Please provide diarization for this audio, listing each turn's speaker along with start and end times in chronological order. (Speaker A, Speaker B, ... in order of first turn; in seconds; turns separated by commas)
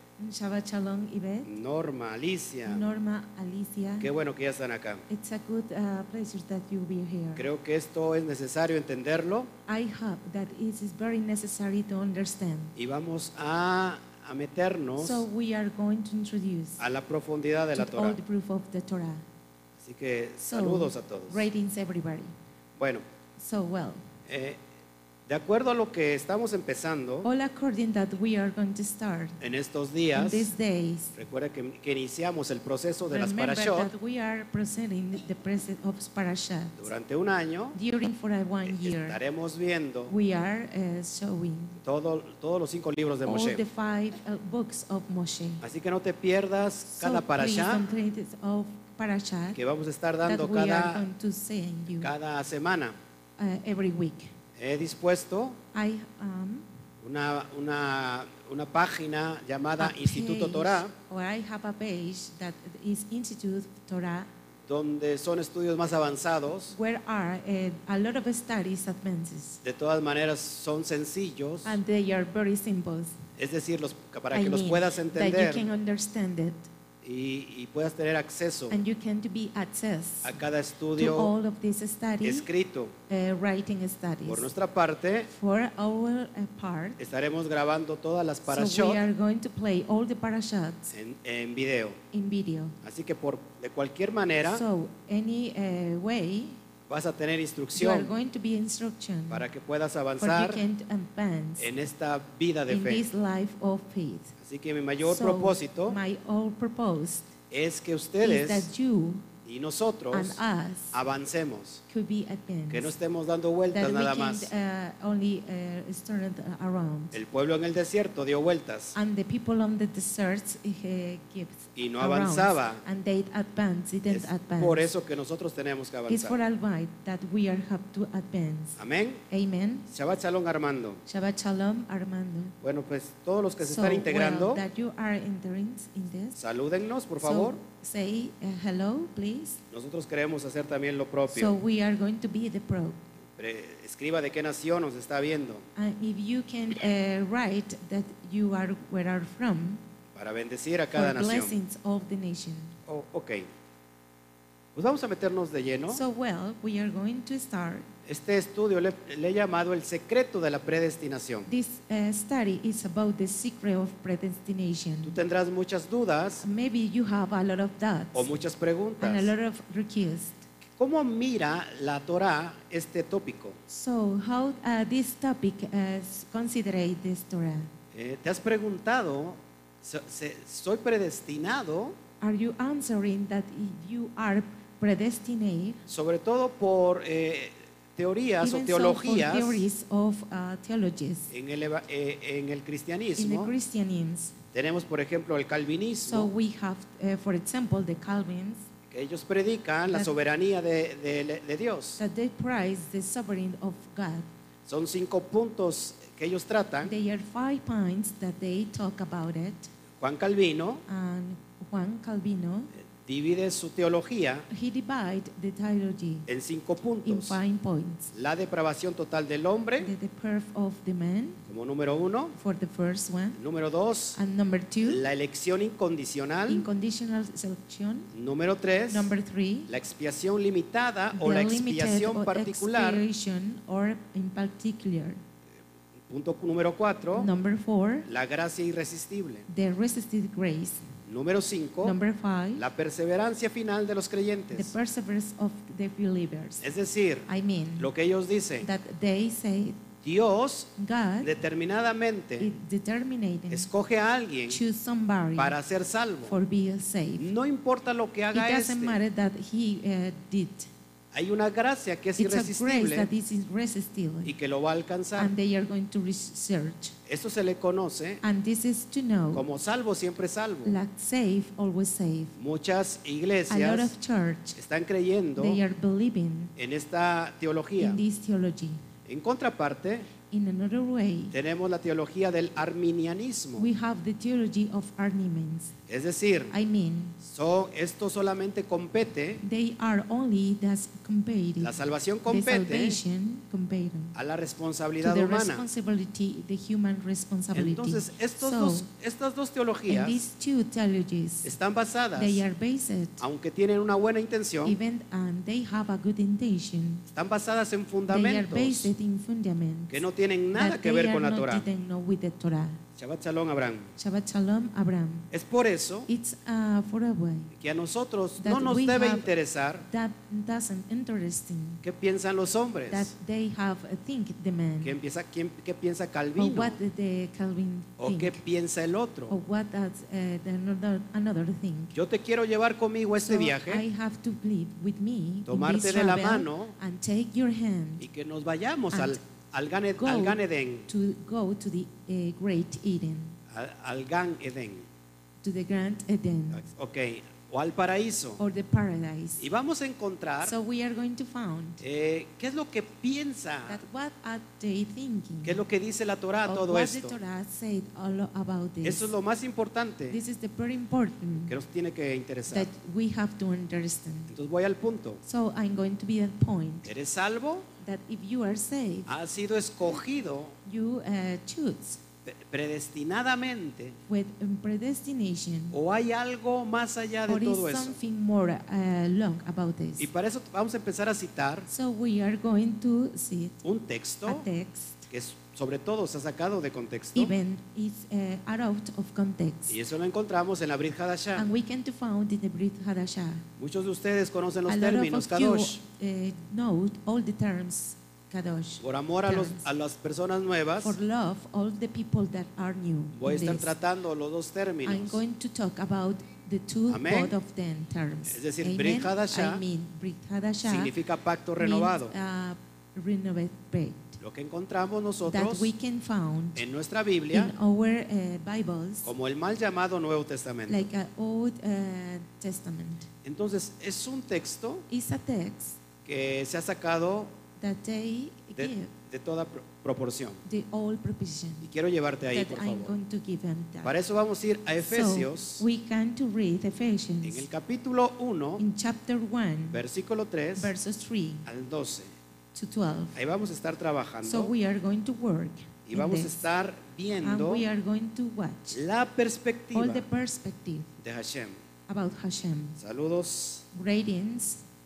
Speaker A: 0.2-1.5, Speaker B: 1.4-2.8, Speaker A: 2.6-4.1, Speaker B: 4.0-5.0, Speaker A: 5.1-7.5, Speaker B: 7.3-9.5, Speaker A: 9.7-12.7, Speaker B: 12.8-15.2, Speaker A: 15.0-16.8, Speaker B: 16.8-18.2, Speaker A: 17.7-19.2, Speaker B: 19.8-21.4, Speaker A: 20.4-22.3, Speaker B: 22.8-23.0, Speaker A: 23.4-24.0, Speaker B: 24.3-24.6, Speaker B: 25.2-27.3, Speaker A: 27.2-29.4, Speaker B: 29.4-30.5, Speaker A: 30.1-31.1, Speaker B: 31.1-33.9, Speaker A: 33.0-36.9, Speaker B: 36.8-37.8, Speaker A: 37.7-39.2, Speaker B: 38.6-40.1, Speaker A: 40.1-41.8, Speaker B: 41.8-43.6, Speaker A: 43.3-45.6, Speaker B: 45.6-47.8, Speaker A: 46.9-49.6, Speaker B: 49.5-51.0, Speaker A: 50.2-52.1, Speaker B: 52.0-52.9, Speaker A: 53.4-54.3, Speaker B: 54.6-55.6, Speaker A: 55.7-56.6, Speaker B: 57.0-60.9, Speaker A: 59.8-64.3, Speaker B: 64.7-66.7, Speaker A: 66.7-69.6, Speaker B: 69.6-71.8, Speaker A: 71.6-73.2, Speaker B: 73.4-75.7, Speaker A: 74.3-76.7, Speaker B: 77.0-78.8, Speaker A: 78.7-80.3, Speaker B: 80.2-81.3, Speaker A: 80.9-82.5, Speaker B: 82.2-82.9, Speaker A: 83.1-84.5, Speaker B: 84.2-85.3, Speaker A: 85.3-87.0, Speaker B: 87.0-89.0, Speaker A: 88.5-90.9, Speaker B: 90.9-92.0, Speaker A: 92.1-92.8, Speaker B: 92.8-94.6, Speaker A: 94.4-96.6, Speaker B: 96.9-98.1, Speaker A: 97.7-99.4, Speaker B: 99.3-100.6, Speaker A: 100.2-101.7, Speaker B: 101.6-103.0, Speaker A: 102.7-104.3, Speaker B: 104.4-106.0, Speaker A: 105.0-107.3, Speaker B: 107.5-108.7, Speaker A: 108.2-109.3, Speaker B: 109.4-110.4, Speaker A: 110.1-111.0, Speaker B: 110.9-111.8, Speaker A: 111.9-112.9, Speaker B: 112.7-114.5, Speaker A: 113.7-117.2, Speaker B: 117.1-119.0, Speaker A: 118.9-124.9, Speaker B: 121.8-122.8, Speaker B: 124.1-126.4, Speaker A: 126.1-128.8, Speaker B: 128.8-129.2, Speaker A: 129.3-129.9, Speaker B: 129.9-131.0, Speaker A: 131.1-132.5, Speaker B: 132.6-134.6, Speaker A: 133.6-136.4, Speaker B: 136.3-137.6, Speaker A: 137.2-139.6, Speaker B: 139.7-141.6, Speaker A: 141.3-143.0, Speaker B: 143.4-145.7, Speaker A: 145.8-149.8, Speaker B: 150.1-151.6, Speaker A: 150.9-152.8, Speaker B: 152.8-153.4, Speaker B: 154.7-156.0, Speaker A: 155.9-157.9, Speaker B: 158.1-161.5, Speaker A: 161.4-165.2, Speaker B: 165.0-166.4, Speaker A: 166.4-168.3, Speaker B: 168.1-169.3, Speaker A: 169.0-170.5, Speaker B: 170.7-173.6, Speaker A: 173.7-177.7, Speaker B: 177.9-181.9, Speaker A: 182.2-185.8, Speaker B: 185.9-189.7, Speaker A: 188.4-191.3, Speaker B: 191.3-193.5, Speaker A: 193.2-194.4, Speaker B: 194.5-196.3, Speaker A: 196.1-198.7, Speaker B: 198.9-202.0, Speaker A: 202.0-204.2, Speaker B: 204.7-206.9, Speaker A: 206.8-209.7, Speaker B: 210.0-210.8, Speaker A: 210.9-212.7, Speaker B: 212.9-214.5, Speaker A: 214.5-216.2, Speaker B: 216.3-217.4, Speaker A: 217.0-218.1, Speaker B: 218.1-219.9, Speaker A: 219.8-221.4, Speaker B: 221.5-222.3, Speaker A: 222.3-223.4, Speaker B: 223.3-224.2, Speaker A: 224.1-225.0, Speaker B: 224.8-226.7, Speaker A: 226.5-228.1, Speaker B: 228.1-229.1, Speaker A: 228.9-229.7, Speaker B: 229.7-233.0, Speaker A: 231.1-235.2, Speaker B: 236.1-237.3, Speaker A: 237.1-238.1, Speaker B: 238.1-239.4, Speaker A: 239.5-240.8, Speaker B: 241.1-241.9, Speaker A: 241.8-242.7, Speaker B: 242.5-244.7, Speaker A: 244.5-246.7, Speaker B: 246.6-248.7, Speaker A: 247.3-247.9, Speaker A: 248.6-249.8, Speaker B: 250.0-252.5, Speaker A: 250.8-251.3, Speaker A: 252.4-253.7, Speaker B: 253.5-254.6, Speaker A: 254.5-255.6, Speaker B: 255.3-256.3, Speaker A: 256.2-257.3, Speaker B: 257.2-259.0, Speaker A: 258.3-260.7, Speaker B: 261.1-263.1, Speaker A: 262.2-264.3, Speaker B: 264.2-265.3, Speaker A: 265.2-266.9, Speaker B: 267.1-268.2, Speaker A: 268.2-269.5, Speaker B: 269.3-270.8, Speaker A: 270.6-272.3, Speaker B: 272.3-273.9, Speaker A: 273.5-274.6, Speaker B: 274.6-275.6, Speaker A: 275.4-276.5, Speaker B: 276.6-278.0, Speaker A: 277.8-278.8, Speaker B: 279.1-280.1, Speaker A: 280.3-281.3, Speaker B: 281.3-283.7, Speaker A: 283.6-285.7, Speaker B: 285.9-286.5, Speaker A: 286.5-287.2, Speaker B: 287.2-289.4, Speaker A: 289.4-291.8, Speaker B: 291.6-293.0, Speaker A: 292.3-294.1, Speaker B: 294.1-295.7, Speaker A: 295.0-298.9, Speaker B: 297.5-300.2, Speaker A: 299.9-301.5, Speaker B: 301.4-302.4, Speaker A: 302.1-303.2, Speaker B: 303.2-304.8, Speaker A: 304.6-307.0, Speaker B: 307.1-308.9, Speaker A: 308.1-312.8, Speaker B: 309.9-311.6, Speaker B: 313.0-313.9, Speaker A: 314.0-315.3, Speaker B: 315.3-316.1, Speaker A: 316.1-317.5, Speaker B: 317.5-319.9, Speaker A: 318.4-319.3, Speaker A: 319.9-321.8, Speaker B: 321.8-323.1, Speaker A: 322.9-324.9, Speaker B: 324.8-326.8, Speaker A: 326.4-328.4, Speaker B: 328.0-329.3, Speaker A: 329.3-331.9, Speaker B: 331.9-333.8, Speaker A: 333.2-338.1, Speaker B: 335.4-336.7, Speaker B: 338.0-340.9, Speaker A: 338.9-339.2, Speaker A: 340.0-343.4, Speaker B: 343.5-344.9, Speaker A: 345.4-346.6, Speaker B: 346.5-348.4, Speaker A: 348.4-349.5, Speaker B: 349.4-350.6, Speaker A: 350.4-351.8, Speaker B: 351.8-353.8, Speaker A: 353.6-355.6, Speaker B: 355.4-357.2, Speaker A: 356.4-359.1, Speaker B: 358.8-360.2, Speaker A: 360.1-361.6, Speaker B: 361.5-362.7, Speaker A: 362.5-364.3, Speaker B: 364.3-365.2, Speaker A: 365.2-366.9, Speaker B: 366.8-367.7, Speaker A: 367.8-369.1, Speaker B: 369.1-370.6, Speaker A: 370.6-372.0, Speaker B: 372.2-374.0, Speaker A: 374.1-375.8, Speaker B: 375.7-378.0, Speaker A: 377.3-380.1, Speaker B: 380.0-381.7, Speaker A: 381.7-383.6, Speaker B: 383.6-384.5, Speaker A: 384.2-385.1, Speaker B: 385.1-387.3, Speaker A: 387.1-389.8, Speaker B: 389.7-391.5, Speaker A: 391.4-393.4, Speaker B: 393.6-395.8, Speaker A: 394.7-399.6, Speaker B: 398.8-401.0, Speaker A: 400.8-403.7, Speaker B: 403.1-405.2, Speaker A: 404.8-410.9, Speaker B: 406.9-407.3, Speaker B: 408.3-409.6, Speaker B: 410.6-412.1, Speaker A: 411.6-414.2, Speaker B: 414.2-415.7, Speaker A: 415.2-416.6, Speaker B: 416.6-417.5, Speaker A: 417.3-419.1, Speaker B: 419.0-420.9, Speaker A: 420.7-423.1, Speaker B: 423.2-424.9, Speaker A: 424.9-425.8, Speaker B: 426.0-427.3, Speaker A: 427.6-428.9, Speaker B: 428.6-430.4, Speaker A: 430.4-431.7, Speaker B: 431.6-432.9, Speaker A: 432.3-433.9, Speaker B: 433.8-435.6, Speaker A: 434.8-437.5, Speaker B: 437.2-438.6, Speaker A: 438.6-439.8, Speaker B: 439.7-440.7, Speaker A: 440.6-441.5, Speaker B: 441.4-442.1, Speaker A: 442.5-443.1, Speaker B: 443.1-444.5, Speaker A: 444.2-446.4, Speaker B: 445.9-447.6, Speaker A: 447.2-448.8, Speaker B: 448.7-450.1, Speaker A: 449.7-450.9, Speaker B: 451.0-451.6, Speaker A: 451.9-452.8, Speaker B: 452.8-453.6, Speaker A: 453.7-454.6